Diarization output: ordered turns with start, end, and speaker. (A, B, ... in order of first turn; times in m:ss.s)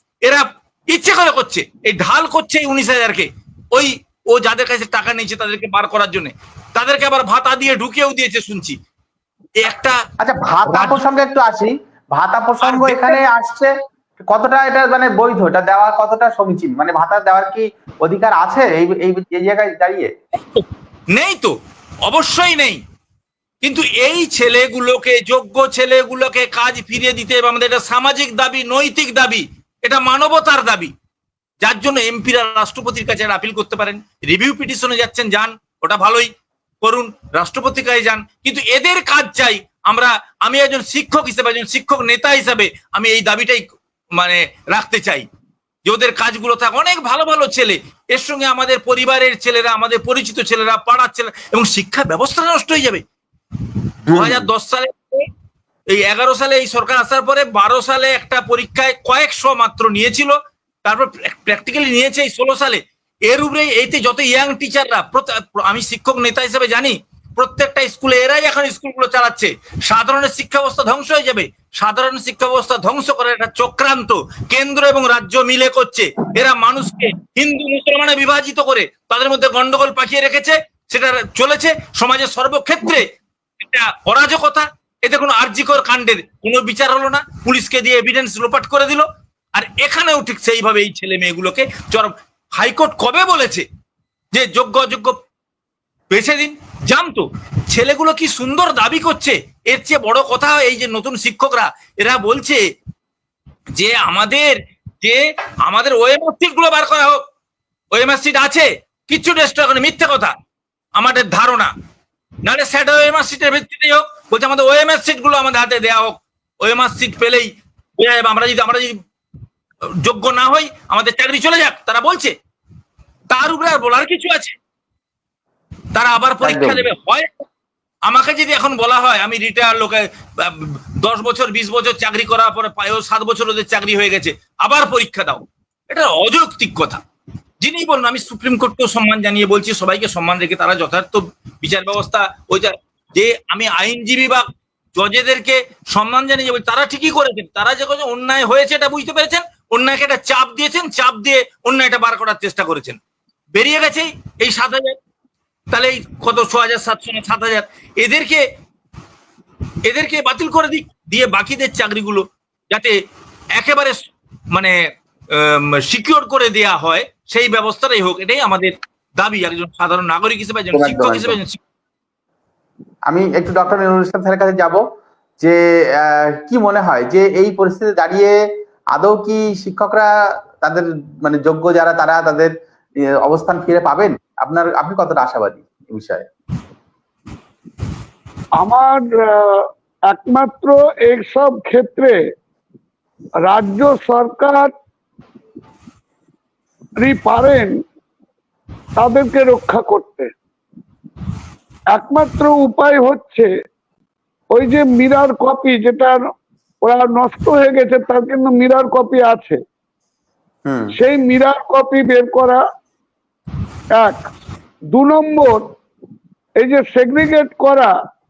0:00.2-0:08.8 A
0:09.6-0:10.0 A
0:10.2-0:13.7 B
0:10.7-0:11.0 A
0:12.6-0:13.2 A
0:14.3-0:20.1 B
0:20.5-0:22.8 A
0:23.6-0:30.9 A
0:31.6-0:36.3 A
0:36.8-0:43.6 A
0:44.2-0:45.2 A
0:45.8-0:53.0 A
0:54.1-0:54.5 B
0:54.1-0:55.2 A
0:55.9-1:23.1 A
1:23.6-1:33.6 A
1:34.3-1:35.2 A
1:36.1-1:42.6 A
1:43.8-1:47.2 A
1:47.9-1:50.3 A
1:51.0-1:51.7 A
1:52.4-1:59.0 A
2:00.0-2:02.3 A
2:03.3-2:04.5 A
2:05.9-2:07.4 A
2:06.4-2:06.8 B
2:08.0-2:17.0 A
2:17.6-2:33.0 A
2:33.5-2:35.0 A
2:35.7-2:38.4 A
2:39.8-2:42.9 A
2:43.6-2:44.7 A
2:45.3-2:51.6 A
2:50.7-2:51.4 B
2:53.1-2:54.8 B
2:55.4-2:58.3 B
2:58.9-3:06.3 B
3:08.6-3:12.2 C
3:13.4-3:14.7 C
3:17.0-3:17.7 C
3:19.0-3:20.3 C
3:21.9-3:23.5 C
3:24.5-3:26.2 C
3:26.8-3:29.6 C
3:30.6-3:30.9 B
3:30.9-3:32.6 C
3:33.9-3:34.2 C
3:34.9-3:35.7 C
3:36.6-3:37.9 C